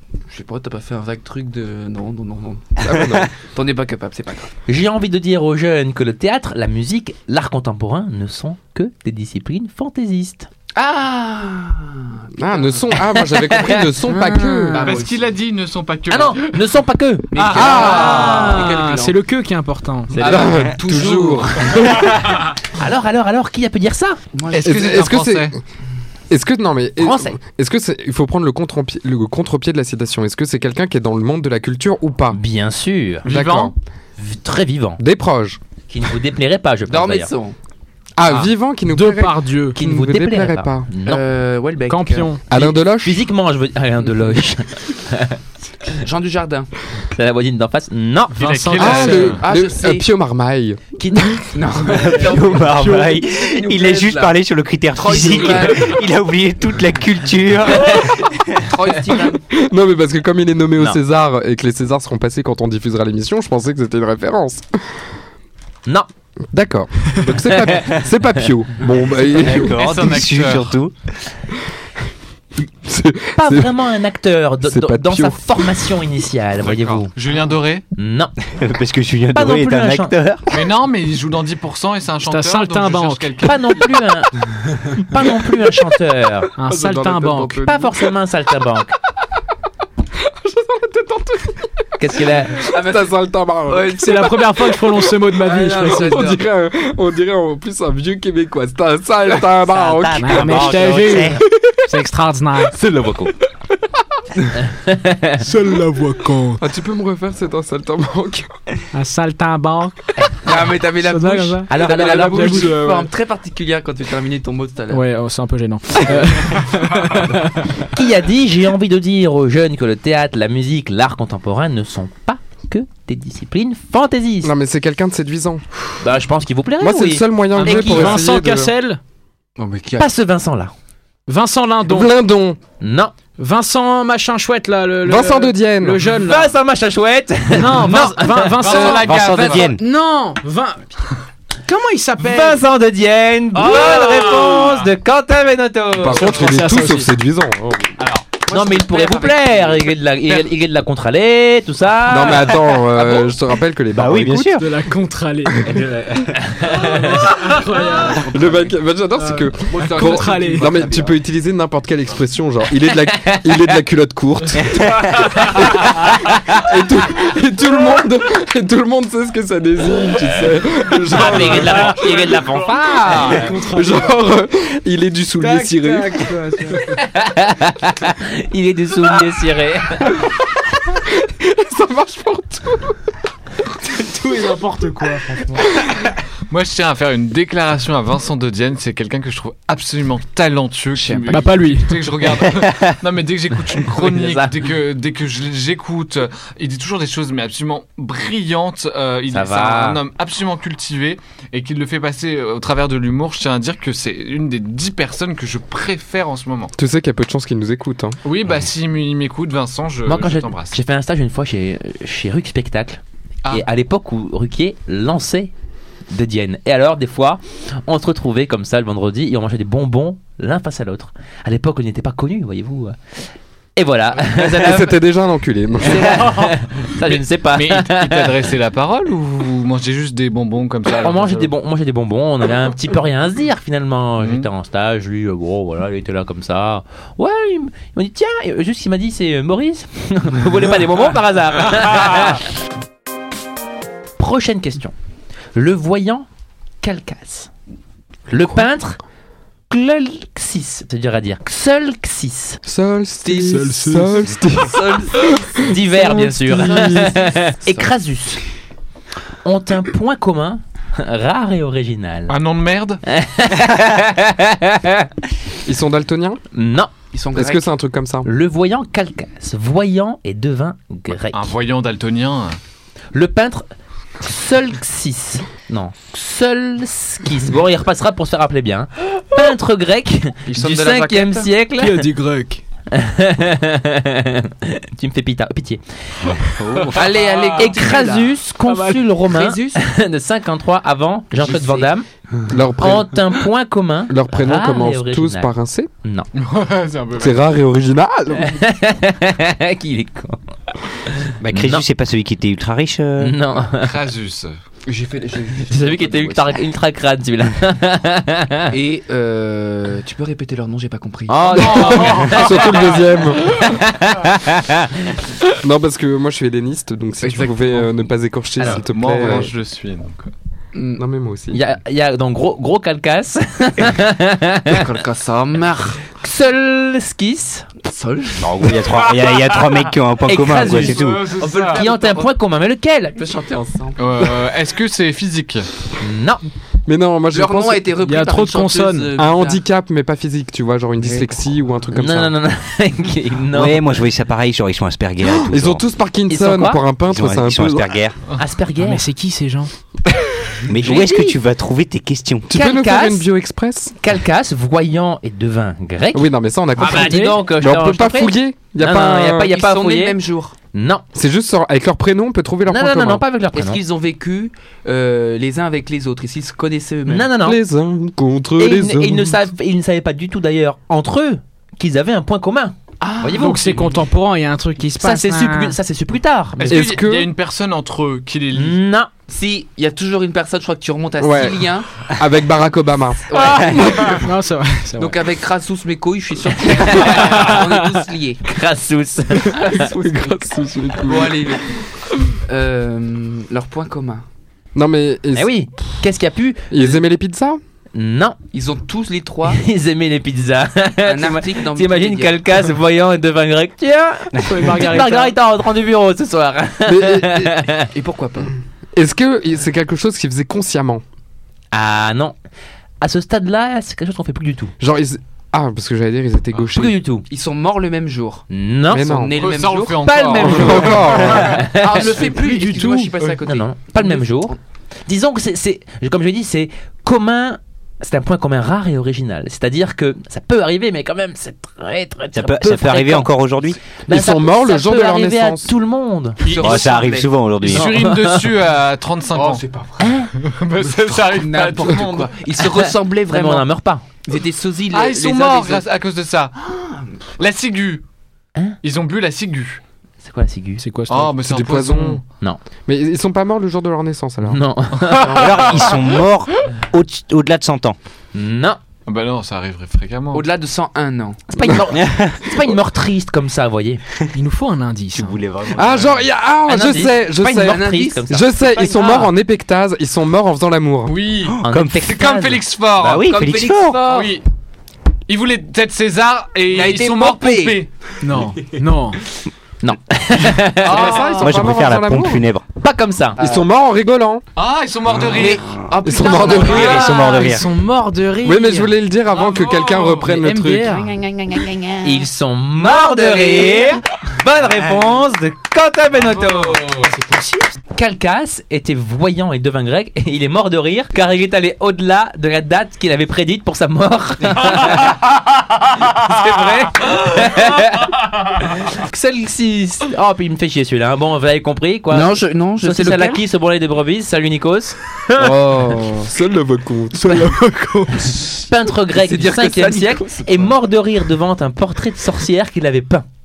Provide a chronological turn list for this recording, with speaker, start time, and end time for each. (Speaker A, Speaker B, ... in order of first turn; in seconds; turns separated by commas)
Speaker A: 0.3-4.5, Speaker B: 2.8-3.3, Speaker C: 4.7-10.5, Speaker A: 10.7-12.9, Speaker B: 12.4-14.9, Speaker C: 13.2-13.8, Speaker D: 14.1-14.8, Speaker A: 14.7-15.3, Speaker E: 14.7-16.6, Speaker C: 16.1-18.6, Speaker A: 17.3-19.2, Speaker E: 17.3-18.5, Speaker B: 17.5-18.2, Speaker D: 17.6-20.2, Speaker A: 20.1-22.3, Speaker B: 20.2-22.2, Speaker C: 20.2-20.5, Speaker C: 22.7-24.2, Speaker A: 24.3-25.0, Speaker E: 24.5-25.6, Speaker B: 24.6-25.6, Speaker B: 26.3-32.4, Speaker C: 27.0-27.4, Speaker C: 32.3-33.3, Speaker E: 33.2-33.7, Speaker B: 33.2-33.7, Speaker C: 34.2-35.0, Speaker B: 35.0-35.6, Speaker C: 35.9-37.3, Speaker A: 36.9-37.5, Speaker B: 38.2-40.9, Speaker D: 38.9-39.8, Speaker C: 39.7-41.2, Speaker A: 41.0-42.4, Speaker D: 41.9-42.4, Speaker B: 42.5-43.2, Speaker C: 42.5-45.4, Speaker A: 45.9-46.7, Speaker C: 47.1-48.5, Speaker D: 48.3-49.4, Speaker E: 48.4-49.4, Speaker B: 48.8-51.5, Speaker A: 48.9-50.0, Speaker C: 51.0-51.3, Speaker A: 51.5-54.4, Speaker F: 51.9-58.3, Speaker A: 54.9-56.0, Speaker A: 57.9-59.4, Speaker B: 59.5-64.7, Speaker B: 66.5-69.8, Speaker C: 67.3-67.8, Speaker F: 69.1-70.9, Speaker E: 69.5-70.7, Speaker B: 72.8-73.7, Speaker C: 73.3-77.1, Speaker B: 74.6-75.8, Speaker E: 76.6-77.8, Speaker C: 78.0-78.3, Speaker F: 78.5-80.4, Speaker C: 79.3-80.3, Speaker E: 80.5-83.9, Speaker D: 82.2-83.4, Speaker C: 83.4-86.5, Speaker D: 86.6-87.7, Speaker B: 86.7-87.9, Speaker C: 87.6-88.9, Speaker B: 90.3-94.0, Speaker C: 92.0-92.7, Speaker A: 92.6-93.1, Speaker A: 93.7-94.5, Speaker D: 93.9-96.3, Speaker A: 95.3-96.4, Speaker B: 95.8-101.0, Speaker F: 99.7-101.4, Speaker D: 100.2-102.8, Speaker C: 102.8-103.3, Speaker C: 104.7-105.4, Speaker D: 105.4-106.6, Speaker B: 106.6-108.5, Speaker D: 108.9-110.0, Speaker A: 110.4-115.0, Speaker D: 111.0-113.0, Speaker C: 111.7-112.8, Speaker D: 114.9-117.8, Speaker C: 117.9-124.5, Speaker B: 124.4-125.6, Speaker C: 126.0-128.2, Speaker B: 126.8-128.7, Speaker D: 127.6-129.0, Speaker A: 129.6-130.1, Speaker C: 130.0-130.7, Speaker D: 131.3-132.1, Speaker B: 131.9-132.6, Speaker C: 132.8-133.1, Speaker D: 133.4-136.5, Speaker B: 135.0-136.0, Speaker C: 136.1-138.6, Speaker D: 137.5-140.9, Speaker E: 138.6-139.7, Speaker F: 138.8-139.8, Speaker D: 141.6-142.6, Speaker C: 142.2-146.4, Speaker E: 143.6-144.9, Speaker B: 145.9-147.9, Speaker D: 146.2-147.1, Speaker E: 148.0-148.2, Speaker A: 148.4-149.9, Speaker C: 148.5-152.7, Speaker B: 152.0-154.6, Speaker F: 153.9-154.7, Speaker D: 154.5-158.5, Speaker B: 155.6-155.8, Speaker C: 156.5-157.3, Speaker A: 157.9-158.7, Speaker B: 158.3-172.2, Speaker D: 159.2-160.7, Speaker A: 159.7-161.2, Speaker C: 163.1-163.5, Speaker C: 171.1-173.5, Speaker D: 171.3-171.6, Speaker D: 172.9-174.1, Speaker B: 173.4-176.3, Speaker D: 175.4-177.0, Speaker C: 177.0-180.2, Speaker B: 180.9-183.0, Speaker D: 183.9-185.7, Speaker E: 186.5-206.7, Speaker A: 190.9-191.5, Speaker D: 191.3-192.2, Speaker C: 193.9-194.6, Speaker C: 199.3-200.0, Speaker B: 206.8-208.2, Speaker E: 208.2-210.8, Speaker C: 210.1-215.5, Speaker C: 216.1-222.9, Speaker C: 223.8-225.0, Speaker B: 224.3-226.2, Speaker C: 225.8-228.4, Speaker E: 226.2-231.5, Speaker C: 231.0-242.5, Speaker E: 234.2-234.5, Speaker C: 244.2-244.9, Speaker C: 245.5-246.3, Speaker C: 246.8-247.5, Speaker C: 248.3-249.0, Speaker B: 248.4-248.6, Speaker C: 249.7-252.6, Speaker B: 252.6-257.1, Speaker A: 253.2-253.6, Speaker D: 253.4-254.3, Speaker A: 254.6-255.6, Speaker C: 255.6-258.4, Speaker A: 256.6-257.2, Speaker C: 259.4-262.3, Speaker E: 262.3-263.0, Speaker C: 263.0-265.1, Speaker B: 265.6-266.4, Speaker C: 266.5-266.9, Speaker A: 267.1-267.6, Speaker B: 267.3-268.3, Speaker C: 268.2-271.5, Speaker E: 271.3-272.6, Speaker C: 273.1-273.7, Speaker C: 274.2-282.1, Speaker A: 280.4-281.5, Speaker D: 281.7-282.6, Speaker C: 282.9-286.4, Speaker E: 286.7-287.6, Speaker A: 286.9-288.4, Speaker C: 287.6-292.1, Speaker D: 288.6-289.1, Speaker A: 289.2-289.8, Speaker A: 291.4-291.9, Speaker B: 292.5-293.2, Speaker C: 292.8-295.5, Speaker B: 294.1-295.9, Speaker C: 296.0-296.3, Speaker E: 296.3-297.4, Speaker B: 297.1-298.6, Speaker C: 298.4-301.8, Speaker F: 301.4-303.4, Speaker C: 303.2-303.9, Speaker E: 303.7-304.6, Speaker A: 304.9-306.6, Speaker C: 305.7-308.7, Speaker A: 308.7-312.0, Speaker C: 311.3-312.8, Speaker E: 311.5-313.1, Speaker B: 311.7-313.6, Speaker C: 313.4-315.2, Speaker B: 315.6-319.5, Speaker A: 317.2-317.9, Speaker E: 318.6-320.3, Speaker A: 320.7-321.0, Speaker B: 321.0-321.6, Speaker C: 321.5-324.8, Speaker A: 324.7-326.0, Speaker C: 326.2-327.7, Speaker A: 327.8-328.8, Speaker F: 328.4-331.3, Speaker C: 330.2-333.2, Speaker E: 330.7-331.8, Speaker A: 331.0-332.3, Speaker A: 333.1-334.0, Speaker E: 334.0-335.7, Speaker C: 336.0-336.4, Speaker B: 336.9-337.9, Speaker A: 337.3-339.6, Speaker D: 338.0-339.1, Speaker B: 339.1-342.3, Speaker A: 341.0-341.4, Speaker C: 341.9-344.0, Speaker F: 343.5-345.8, Speaker B: 345.2-347.9, Speaker C: 346.3-346.8, Speaker F: 347.1-348.2, Speaker C: 348.4-349.0, Speaker D: 348.8-349.7, Speaker F: 350.7-352.5, Speaker C: 350.8-351.4, Speaker B: 352.5-353.9, Speaker C: 352.5-353.2, Speaker C: 354.0-360.2, Speaker B: 356.1-359.5, Speaker D: 356.8-357.4, Speaker A: 359.4-360.5, Speaker C: 360.7-361.0, Speaker B: 361.1-363.2, Speaker C: 362.7-363.8, Speaker A: 363.5-367.3, Speaker C: 367.1-367.6, Speaker B: 367.4-369.5, Speaker C: 368.6-373.9, Speaker A: 373.0-373.7, Speaker D: 373.3-375.8, Speaker C: 375.0-376.8, Speaker E: 376.6-378.8, Speaker B: 376.6-377.3, Speaker C: 378.5-379.1, Speaker A: 379.3-381.9, Speaker B: 381.2-384.2, Speaker A: 383.3-384.2, Speaker D: 384.0-385.2, Speaker A: 385.0-388.4, Speaker C: 386.7-387.5, Speaker D: 387.3-387.7, Speaker C: 388.4-389.9, Speaker A: 389.5-390.4, Speaker B: 389.6-391.5, Speaker A: 390.9-391.9, Speaker A: 392.4-394.2, Speaker B: 394.7-395.5, Speaker C: 395.3-397.0, Speaker B: 396.7-397.6, Speaker C: 397.9-398.4, Speaker A: 398.5-399.6, Speaker C: 399.5-407.9, Speaker A: 401.0-402.6, Speaker D: 404.4-405.3, Speaker B: 406.8-407.6, Speaker A: 407.9-408.5, Speaker B: 408.9-411.0, Speaker C: 411.7-412.3, Speaker C: 413.0-414.7, Speaker B: 414.8-417.0, Speaker C: 416.7-417.2, Speaker A: 417.3-420.1, Speaker C: 418.5-419.2, Speaker B: 418.9-419.4, Speaker E: 419.4-421.6, Speaker C: 420.0-424.6, Speaker B: 420.4-421.6, Speaker A: 421.7-424.6, Speaker C: 425.1-433.3, Speaker F: 432.3-433.8, Speaker C: 434.0-436.4, Speaker B: 434.1-435.7, Speaker A: 436.4-437.4, Speaker E: 436.5-436.8, Speaker F: 436.5-438.0, Speaker E: 437.6-439.6, Speaker C: 437.7-438.4, Speaker A: 439.3-440.3, Speaker C: 440.0-440.3, Speaker E: 440.3-442.3, Speaker A: 440.8-443.7, Speaker C: 442.6-444.1, Speaker A: 444.2-445.8, Speaker E: 444.9-446.6, Speaker A: 446.6-447.3, Speaker E: 447.4-448.0, Speaker E: 448.8-449.8, Speaker C: 450.2-450.8, Speaker D: 450.8-451.4, Speaker E: 451.1-452.2, Speaker B: 451.4-452.2, Speaker B: 452.9-454.6, Speaker C: 454.4-455.4, Speaker E: 455.0-456.1, Speaker F: 455.2-457.9, Speaker A: 455.4-455.9, Speaker C: 458.3-458.8, Speaker E: 459.1-460.5, Speaker A: 460.3-461.4, Speaker C: 461.5-464.0, Speaker F: 461.9-462.6, Speaker D: 464.3-465.4, Speaker F: 465.1-466.2, Speaker B: 465.7-471.1, Speaker C: 466.7-469.3, Speaker A: 467.6-469.2, Speaker E: 471.1-473.3, Speaker F: 471.5-472.1, Speaker C: 471.6-472.6, Speaker F: 473.0-474.0, Speaker A: 473.2-474.4, Speaker E: 474.0-474.4, Speaker E: 475.3-477.9, Speaker A: 476.7-477.8, Speaker D: 478.2-479.2, Speaker C: 479.8-481.2, Speaker E: 480.8-481.6, Speaker B: 480.8-482.4, Speaker F: 481.4-482.6, Speaker C: 482.8-483.4, Speaker A: 483.4-483.6, Speaker B: 483.4-484.4, Speaker E: 484.6-485.7, Speaker A: 485.2-487.4, Speaker B: 486.0-487.1, Speaker E: 486.4-486.9, Speaker F: 486.7-487.7, Speaker D: 487.0-488.9, Speaker B: 488.4-491.1, Speaker E: 489.3-490.3, Speaker D: 490.2-491.2, Speaker A: 491.2-492.1, Speaker C: 492.0-497.0, Speaker A: 492.8-494.0, Speaker D: 496.9-497.7, Speaker C: 497.9-505.2, Speaker C: 506.0-515.5, Speaker A: 512.1-513.4, Speaker B: 515.4-517.5, Speaker A: 515.4-516.3, Speaker D: 517.1-518.5, Speaker C: 518.2-523.2, Speaker A: 519.1-520.7